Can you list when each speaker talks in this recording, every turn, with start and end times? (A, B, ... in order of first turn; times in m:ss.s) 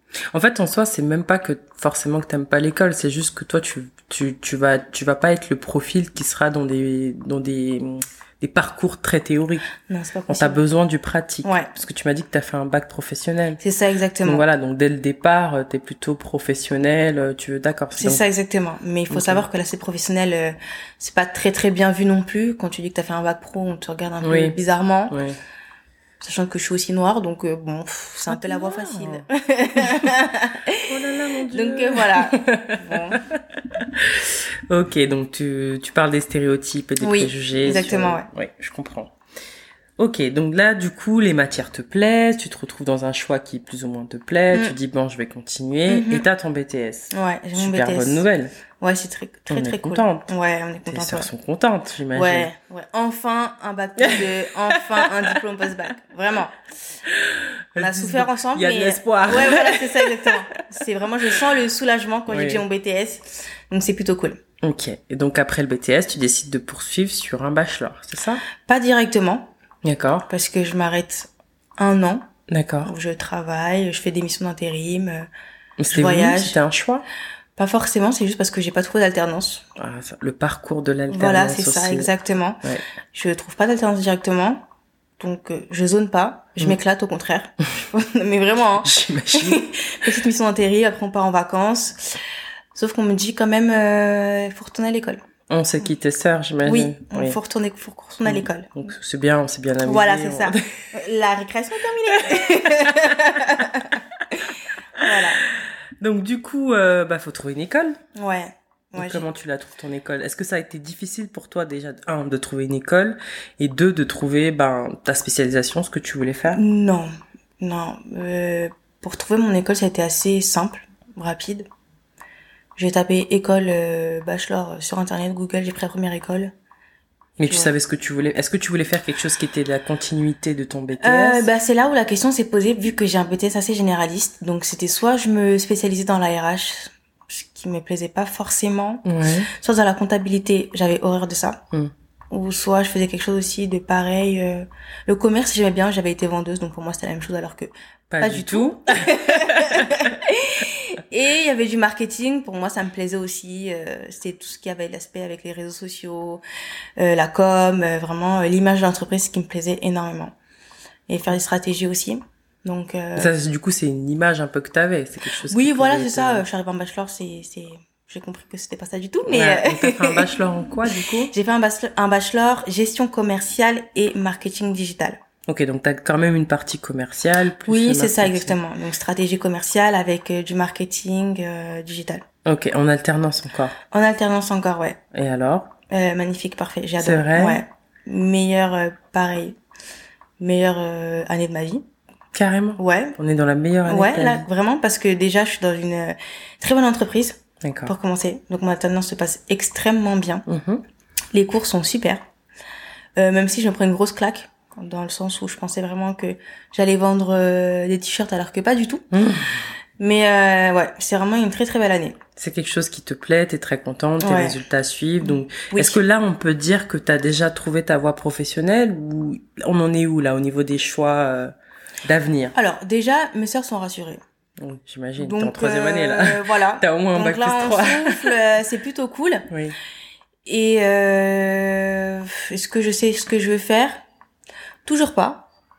0:00.3-0:09.7 A
0:09.9-0:10.6 B
0:10.3-0:13.6 A
0:11.4-0:11.7 B
0:13.6-0:14.4 B
0:14.2-0:18.2 A
0:18.0-0:25.2 B
0:19.1-0:19.4 A
0:24.2-0:24.6 A
0:25.1-0:25.4 A
0:26.2-0:33.2 B
0:28.3-0:29.2 A
0:29.8-0:30.1 A
0:30.9-0:39.1 A
0:37.0-0:38.3 B
0:40.0-0:48.5 A
0:45.9-0:46.3 B
0:47.1-0:48.2 B
0:48.8-0:51.3 B
0:49.5-0:50.3 A
0:50.9-0:52.5 A
0:52.1-0:56.6 B
0:54.0-0:55.4 A
0:57.1-1:00.6 A
0:57.8-1:04.4 B
1:02.3-1:02.6 A
1:04.6-1:08.4 A
1:08.6-1:09.5 B
1:09.8-1:10.3 A
1:10.3-1:12.2 B
1:12.5-1:12.9 A
1:12.8-1:15.3 B
1:15.8-1:17.1 A
1:15.9-1:16.6 B
1:17.6-1:19.7 B
1:19.8-1:22.1 A
1:21.1-1:22.6 B
1:23.1-1:24.6 B
1:25.2-1:32.2 B
1:28.8-1:30.1 A
1:32.7-1:35.3 B
1:35.5-1:37.4 A
1:36.6-1:38.8 B
1:38.2-1:40.6 A
1:39.8-1:45.4 B
1:42.2-1:42.6 A
1:45.0-1:48.0 A
1:48.2-1:49.2 B
1:49.0-1:56.6 A
1:56.5-2:01.7 B
2:02.8-2:06.5 B
2:07.4-2:11.5 A
2:07.4-2:07.7 B
2:11.0-2:21.6 B
2:19.0-2:19.5 A
2:22.3-2:36.4 B
2:28.1-2:30.1 A
2:37.0-2:40.3 B
2:41.1-2:43.3 B
2:43.2-2:46.5 A
2:45.5-2:50.3 B
2:49.2-2:51.3 A
2:51.3-2:55.2 B
2:55.5-2:58.6 A
2:57.7-3:02.2 B
3:02.4-3:03.8 A
3:03.9-3:05.1 B
3:05.1-3:05.7 A
3:05.9-3:09.6 B
3:07.0-3:07.6 A
3:10.4-3:11.8 B
3:12.3-3:14.5 A
3:12.8-3:13.2 B
3:13.8-3:20.5 B
3:17.6-3:17.9 A
3:20.5-3:20.8 A
3:21.3-3:22.2 B
3:23.2-3:29.1 B
3:29.1-3:29.7 A
3:30.0-3:32.2 B
3:32.4-3:41.5 A
3:34.2-3:34.6 B
3:35.3-3:36.0 B
3:42.0-3:42.6 A
3:42.6-3:44.2 B
3:44.6-3:48.4 A
3:45.2-3:49.5 B
3:49.5-3:49.8 A
3:50.5-3:54.0 B
3:54.8-3:55.5 B